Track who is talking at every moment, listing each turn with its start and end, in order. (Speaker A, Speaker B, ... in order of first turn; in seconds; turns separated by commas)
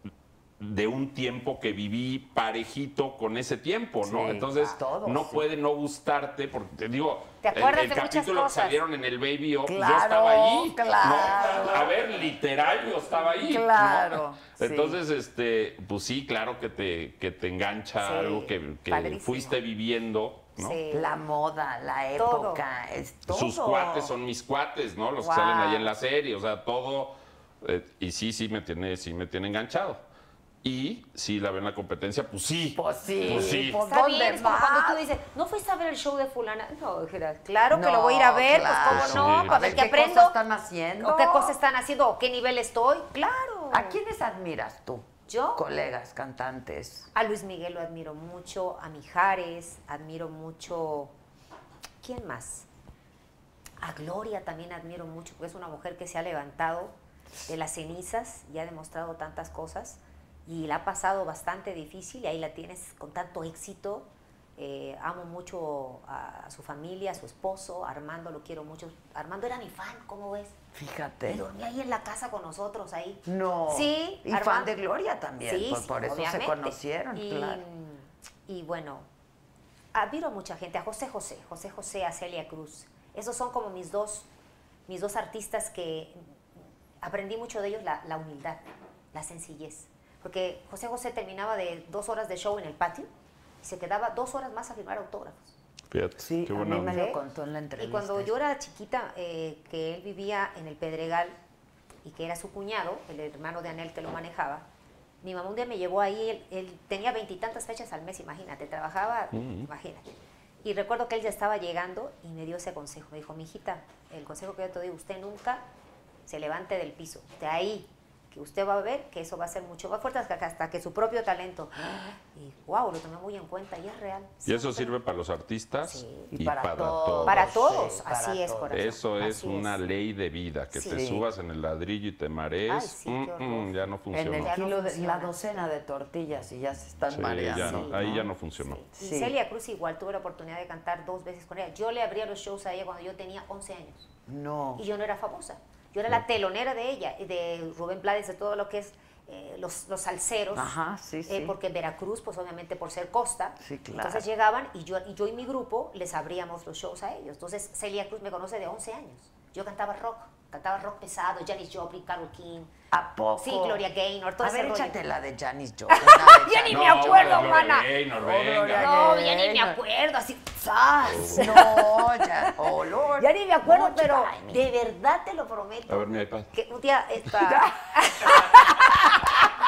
Speaker A: 0.6-20.8, Speaker B: 4.0-5.4, Speaker C: 7.4-8.8, Speaker B: 9.7-11.9, Speaker B: 13.4-15.0, Speaker C: 18.0-19.6, Speaker C: 20.6-21.1, Speaker B: 20.9-24.1, Speaker C: 22.2-22.6, Speaker A: 23.3-30.0, Speaker C: 25.2-25.9, Speaker A: 30.6-33.8, Speaker B: 32.7-35.0, Speaker C: 33.2-40.4, Speaker B: 37.7-41.5, Speaker A: 38.9-39.8, Speaker C: 41.0-44.0, Speaker B: 43.7-47.1, Speaker C: 45.3-45.6, Speaker C: 47.1-51.1, Speaker C: 52.0-52.7, Speaker C: 53.8-56.9, Speaker C: 57.5-70.5, Speaker B: 70.7-71.5, Speaker C: 71.2-74.7, Speaker B: 73.2-77.6, Speaker C: 75.4-79.1, Speaker C: 79.9-84.3, Speaker C: 84.9-86.2, Speaker C: 87.0-93.1, Speaker C: 93.6-95.5, Speaker A: 95.9-97.0, Speaker B: 96.2-98.3, Speaker C: 96.7-97.2, Speaker C: 97.8-101.3, Speaker C: 102.0-104.7, Speaker C: 105.2-110.1, Speaker A: 109.3-109.7, Speaker C: 110.6-115.7, Speaker C: 116.2-124.9, Speaker A: 124.4-127.5, Speaker C: 125.8-126.3, Speaker B: 126.3-128.8, Speaker C: 127.2-129.8, Speaker A: 128.7-134.5, Speaker C: 130.7-131.0, Speaker B: 130.8-131.2, Speaker C: 132.7-135.7, Speaker B: 134.1-138.3, Speaker A: 137.1-138.8, Speaker C: 137.5-144.1, Speaker B: 138.9-139.3, Speaker B: 144.3-144.8, Speaker C: 144.8-150.7, Speaker B: 150.5-151.6, Speaker C: 151.3-162.7, Speaker B: 153.6-154.3, Speaker B: 162.9-163.8, Speaker C: 163.4-165.0, Speaker B: 164.4-169.8, Speaker C: 165.9-167.9, Speaker A: 166.7-169.0, Speaker C: 168.7-172.6, Speaker A: 171.0-171.5, Speaker B: 171.2-174.7, Speaker C: 173.2-179.4, Speaker A: 175.9-176.5, Speaker B: 177.3-177.7